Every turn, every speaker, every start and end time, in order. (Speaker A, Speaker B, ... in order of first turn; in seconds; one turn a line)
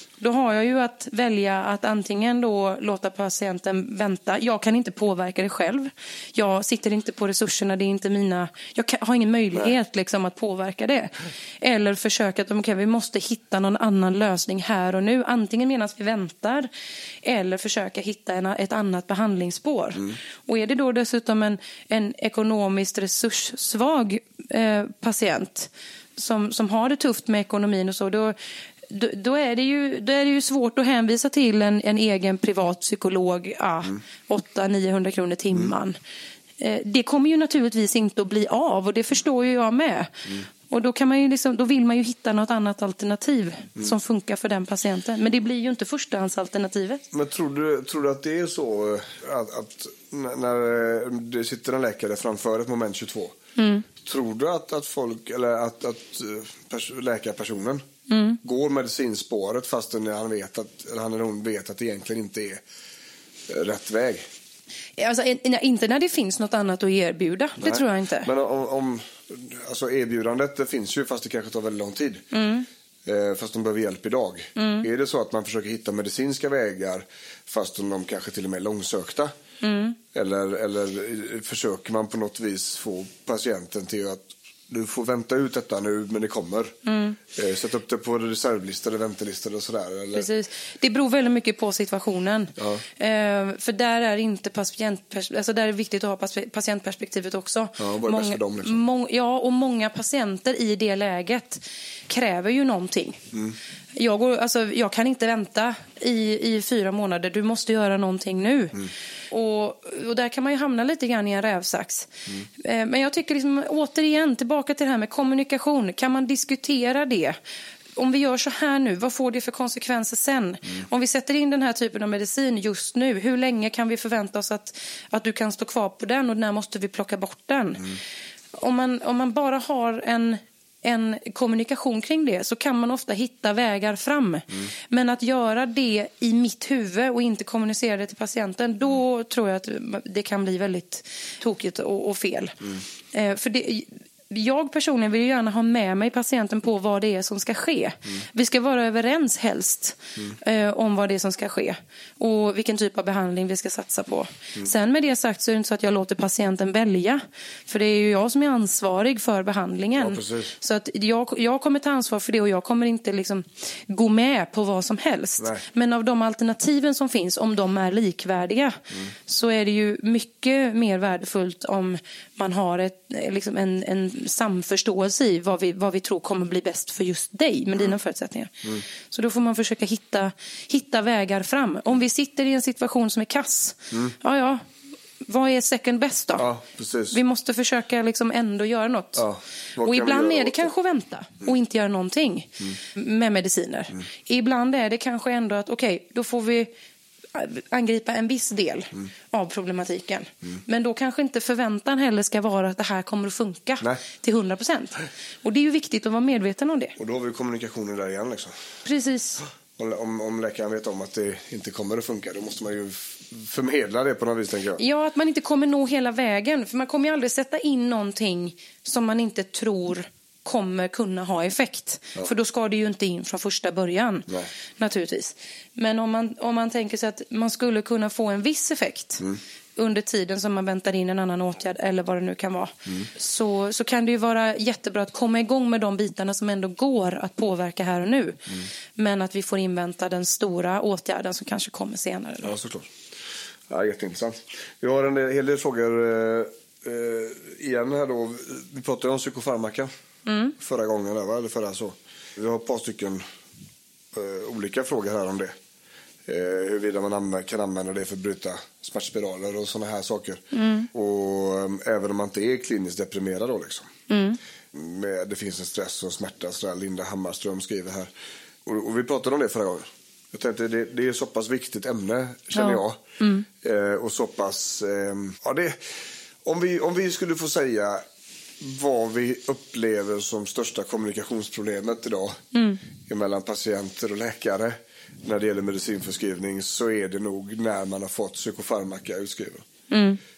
Speaker A: 0.2-16.7
Speaker A: 17.2-28.4
Speaker A: 28.9-36.0
Speaker A: 36.6-47.0
Speaker B: 47.1-53.4
Speaker A: 53.6-53.9
Speaker B: 54.0-57.9
Speaker A: 58.1-58.4
Speaker B: 58.4-62.6
Speaker B: 63.5-64.3
Speaker A: 65.0-68.3
Speaker B: 67.6-72.3
Speaker A: 72.3-72.7
Speaker B: 73.0-79.3
Speaker A: 74.6-74.9
Speaker A: 79.6-80.0
Speaker B: 80.1-86.8
Speaker A: 86.9-87.2
Speaker B: 87.3-90.3
Speaker A: 90.1-103.2
Speaker B: 92.6-92.8
Speaker B: 97.8-98.8
Speaker A: 104.0-117.4
Speaker A: 118.0-127.8
Speaker A: 128.6-142.6
Speaker A: 143.1-178.5
Speaker B: 159.9-160.5
Speaker A: 179.1-184.6
Speaker A: 185.2-186.5
Speaker B: 186.3-187.2
Speaker A: 187.1-189.2
Speaker B: 189.2-190.7
Speaker A: 189.8-196.7
Speaker A: 197.3-206.9
Speaker B: 207.0-208.6
Speaker A: 208.8-209.4
Speaker B: 209.8-214.8
Speaker A: 214.8-224.3
Speaker A: 224.8-229.2
Speaker A: 229.8-242.5
Speaker B: 242.4-242.9
Speaker B: 243.7-249.9
Speaker A: 250.3-250.5
Speaker B: 250.6-253.2
Speaker B: 254.1-255.6
Speaker B: 256.3-263.9
Speaker A: 260.5-260.9
Speaker A: 264.1-264.4
Speaker B: 264.7-268.1
Speaker B: 268.6-273.0
Speaker A: 272.6-273.5
Speaker B: 273.6-275.8
Speaker B: 276.4-278.0
Speaker B: 278.6-282.4
Speaker A: 282.5-282.8
Speaker B: 283.1-289.7
Speaker A: 289.9-290.2